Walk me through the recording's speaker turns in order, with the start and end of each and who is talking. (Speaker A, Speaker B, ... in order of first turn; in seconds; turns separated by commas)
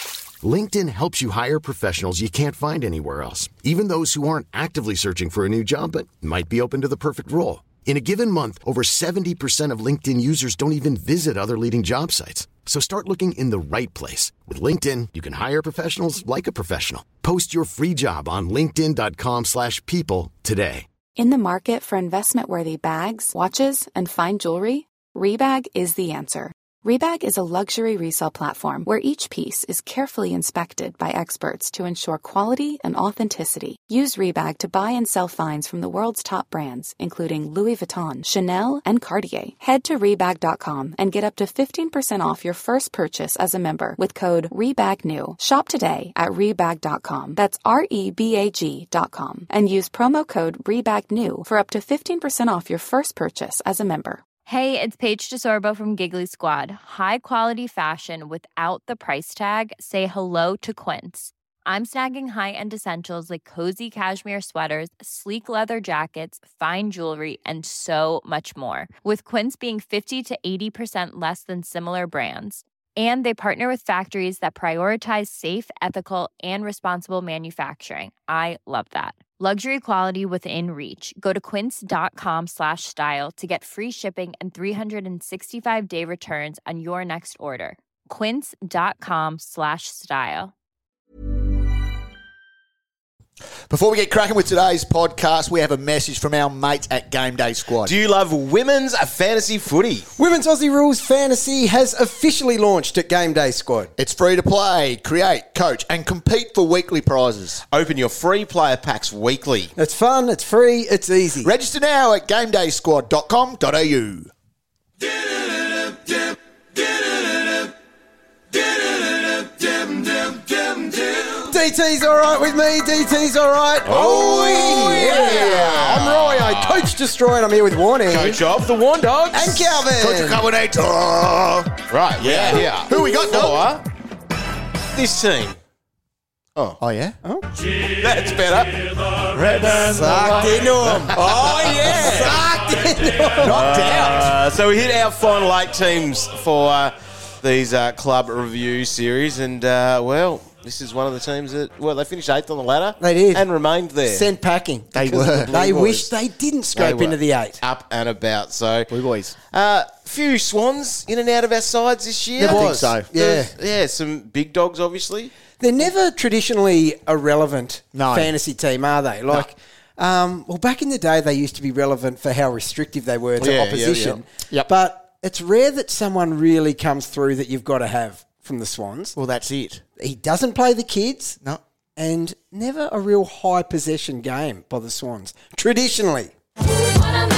Speaker A: 0.4-20.9, Speaker B: 21.2-54.2, Speaker C: 54.5-90.5, Speaker D: 93.7-98.0, Speaker E: 97.8-100.1, Speaker F: 100.2-103.9, Speaker D: 104.0-107.6, Speaker E: 107.7-109.7, Speaker F: 109.8-111.5, Speaker D: 111.4-114.3, Speaker F: 121.4-128.4, Speaker E: 123.8-126.9, Speaker D: 124.0-126.1, Speaker E: 128.1-129.9, Speaker F: 129.3-130.5, Speaker D: 129.9-133.8, Speaker E: 131.9-133.8, Speaker F: 132.5-133.2, Speaker E: 134.9-135.6, Speaker D: 136.8-137.2, Speaker E: 137.8-138.9, Speaker D: 139.3-142.6, Speaker F: 139.9-143.8, Speaker E: 140.9-142.4, Speaker D: 143.4-144.3, Speaker E: 143.4-154.3, Speaker F: 153.0-153.5, Speaker F: 154.1-157.6, Speaker D: 154.9-155.6, Speaker E: 154.9-156.1, Speaker E: 156.7-158.9, Speaker D: 158.9-159.4, Speaker E: 159.5-165.3, Speaker F: 162.4-163.5, Speaker D: 162.4-163.1, Speaker F: 165.6-179.2, Speaker D: 167.9-168.3, Speaker E: 173.4-174.2, Speaker D: 179.2-179.8, Speaker F: 180.0-181.4, Speaker F: 182.0-186.3